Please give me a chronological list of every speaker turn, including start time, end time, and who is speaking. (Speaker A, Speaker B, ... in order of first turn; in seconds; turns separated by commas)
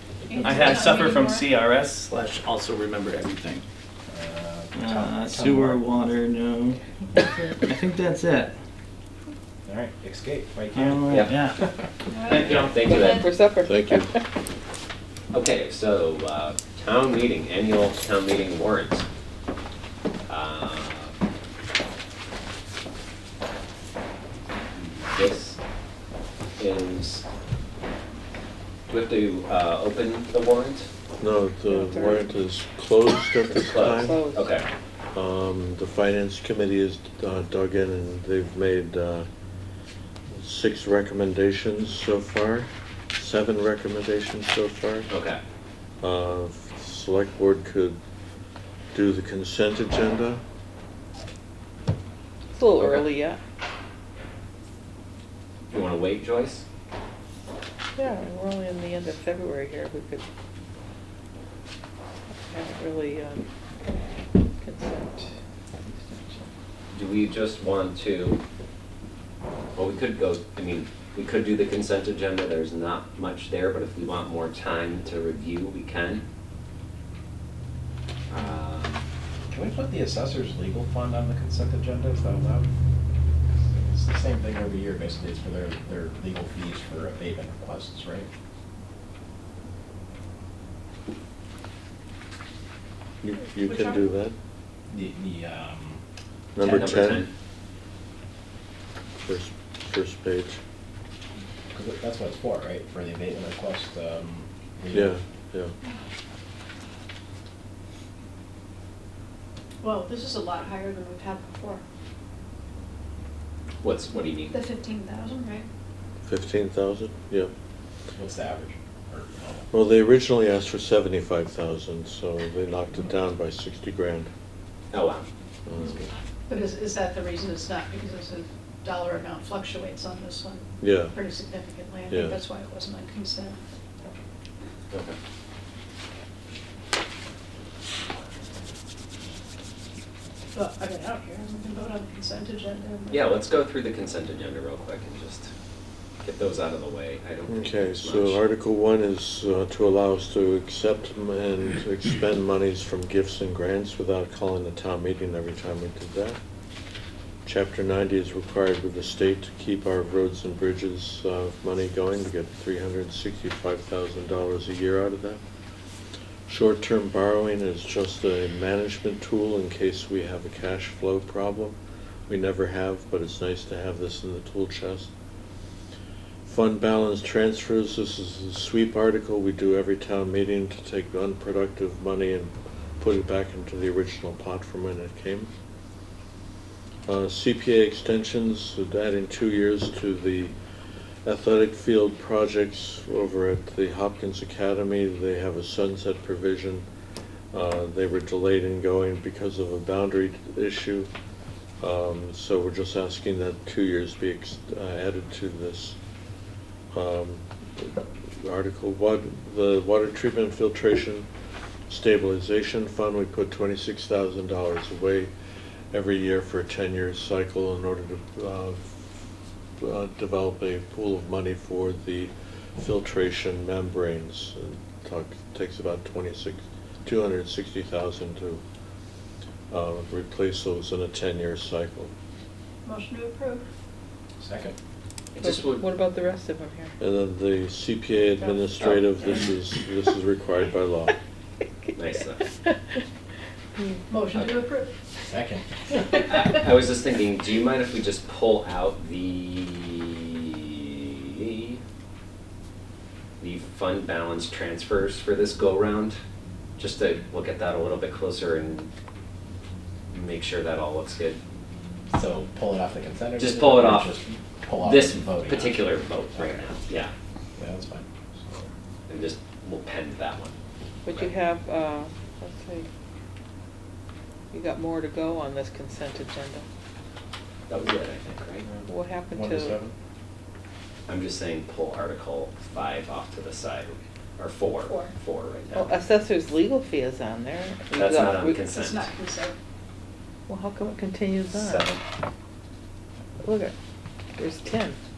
Speaker A: 0.3-1.4, Speaker B: 0.4-3.6, Speaker C: 4.1-5.8, Speaker B: 4.7-8.5, Speaker C: 9.6-11.9, Speaker B: 10.7-11.6, Speaker D: 11.1-11.4, Speaker D: 12.3-13.2, Speaker B: 12.3-12.7, Speaker E: 12.8-14.2, Speaker F: 13.6-14.1, Speaker D: 15.3-19.1, Speaker D: 20.3-21.2, Speaker D: 24.7-25.6, Speaker D: 26.6-27.2, Speaker D: 28.9-30.9, Speaker F: 31.2-34.3, Speaker E: 31.7-32.2, Speaker D: 33.6-34.7, Speaker E: 33.9-34.5, Speaker F: 35.1-39.2, Speaker F: 40.3-45.1, Speaker D: 45.1-45.4, Speaker F: 46.0-48.0, Speaker F: 48.9-50.4, Speaker E: 52.5-53.4, Speaker D: 55.7-56.6, Speaker E: 58.0-60.2, Speaker E: 62.3-65.3, Speaker E: 65.8-66.5, Speaker D: 66.9-68.4, Speaker D: 69.8-76.2, Speaker D: 78.3-79.0, Speaker C: 79.5-82.7, Speaker C: 83.5-88.3, Speaker F: 93.2-94.3, Speaker A: 93.7-94.1, Speaker C: 94.9-96.0, Speaker F: 96.5-97.3, Speaker D: 96.6-97.3, Speaker F: 99.2-100.6, Speaker C: 101.7-105.2, Speaker F: 104.9-105.7, Speaker A: 109.8-111.8, Speaker D: 113.8-114.6, Speaker A: 114.5-115.7, Speaker F: 116.2-117.5, Speaker C: 118.2-119.7, Speaker F: 119.7-124.3, Speaker D: 124.9-125.3, Speaker F: 125.7-126.0, Speaker C: 125.8-126.1, Speaker A: 126.5-133.6, Speaker F: 130.8-131.2, Speaker F: 132.1-132.4, Speaker D: 134.9-135.2, Speaker A: 140.5-143.3, Speaker D: 143.1-145.5, Speaker D: 146.2-148.4, Speaker F: 147.5-156.4, Speaker F: 157.4-165.4, Speaker F: 166.5-171.8, Speaker F: 172.3-175.1, Speaker F: 176.4-185.5, Speaker F: 187.1-190.5, Speaker F: 191.2-196.9, Speaker F: 197.5-201.1, Speaker F: 201.8-206.0, Speaker F: 206.9-211.3, Speaker F: 211.9-215.3, Speaker F: 215.9-219.1, Speaker F: 219.8-228.6, Speaker F: 229.7-232.1, Speaker A: 232.8-233.7, Speaker C: 234.4-234.8, Speaker D: 235.3-235.8, Speaker E: 235.4-236.9, Speaker F: 237.0-241.2, Speaker D: 238.8-239.5, Speaker D: 242.0-242.5, Speaker E: 243.8-244.1, Speaker A: 244.1-244.9, Speaker C: 245.2-246.3, Speaker A: 246.1-246.5, Speaker D: 246.2-250.9, Speaker D: 253.4-256.2, Speaker D: 256.8-258.9, Speaker D: 260.1-261.4, Speaker C: 262.1-266.7, Speaker D: 263.4-264.2, Speaker D: 264.8-267.1, Speaker C: 267.6-268.7, Speaker D: 269.1-270.6, Speaker E: 271.1-272.9, Speaker D: 271.1-271.3, Speaker E: 274.5-276.6, Speaker D: 277.7-278.7, Speaker C: 278.7-279.9, Speaker E: 278.9-279.8, Speaker D: 281.1-285.9, Speaker A: 284.9-285.1, Speaker E: 285.7-288.6, Speaker D: 287.9-289.1, Speaker A: 288.6-289.6, Speaker E: 290.5-291.9, Speaker D: 291.5-292.0, Speaker E: 293.4-293.7, Speaker E: 294.4-295.0